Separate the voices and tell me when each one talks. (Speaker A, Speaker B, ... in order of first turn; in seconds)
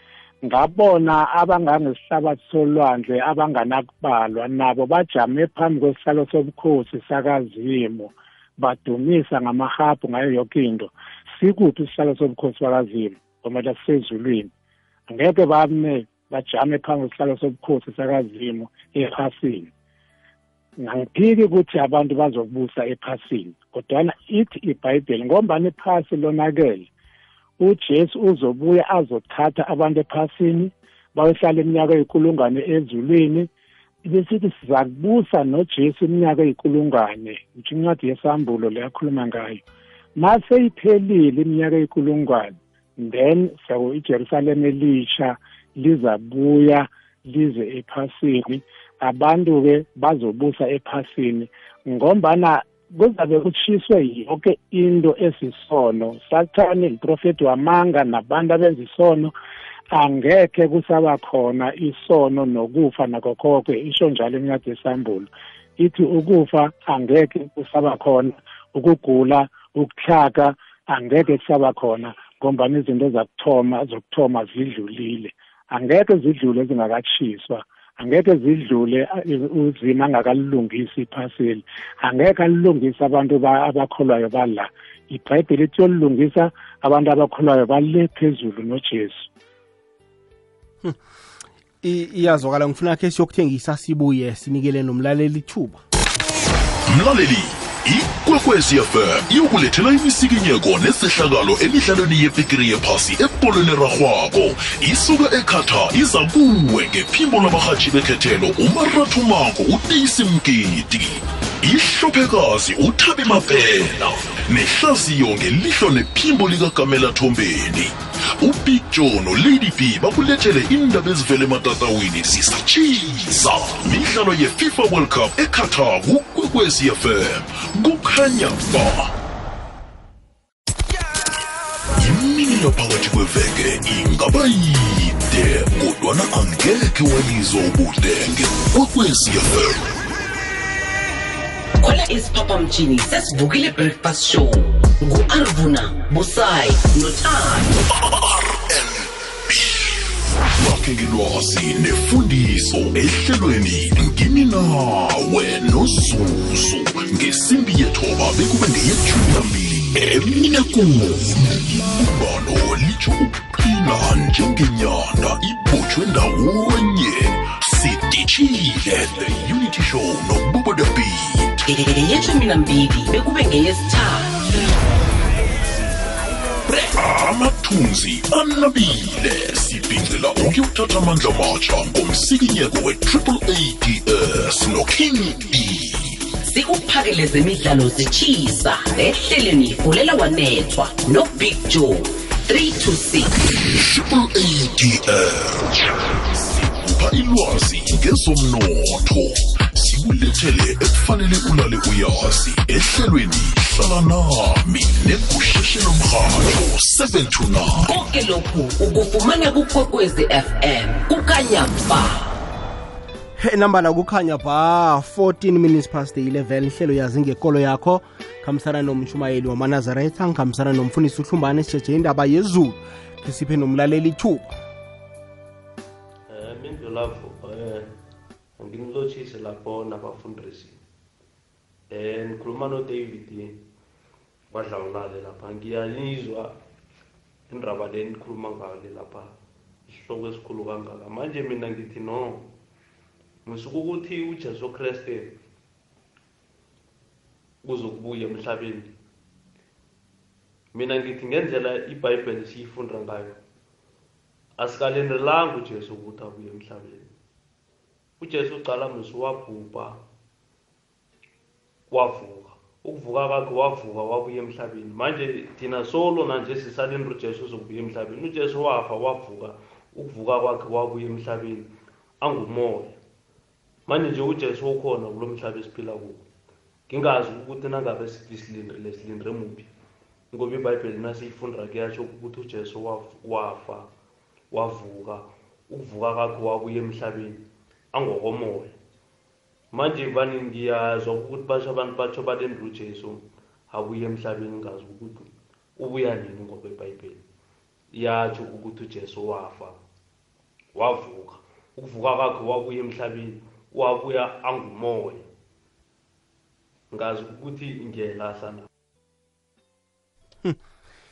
Speaker A: 0.4-14.5, 15.1-19.7, 20.8-26.9, 27.6-33.5, 34.0-39.6, 40.2-59.3, 59.9-89.3
Speaker B: 91.8-95.8, 213.4-224.6
Speaker C: 96.9-129.1, 132.0-139.9, 147.9-171.6, 177.0-186.2, 193.7-207.9
Speaker D: 141.8-147.7, 171.7-174.8, 186.5-193.4, 207.8-212.2
Speaker E: 226.3-227.9, 228.6-230.8, 231.9-233.6, 234.5-236.6, 237.5-239.3, 239.9-242.5, 243.4-245.4, 247.6-248.9, 250.7-253.4, 254.6-257.1, 258.2-260.0, 261.9-273.0, 273.9-276.2, 276.9-279.7, 280.3-283.9, 284.5-288.8, 289.7-297.2, 297.9-299.8, 300.8-305.3, 306.9-308.7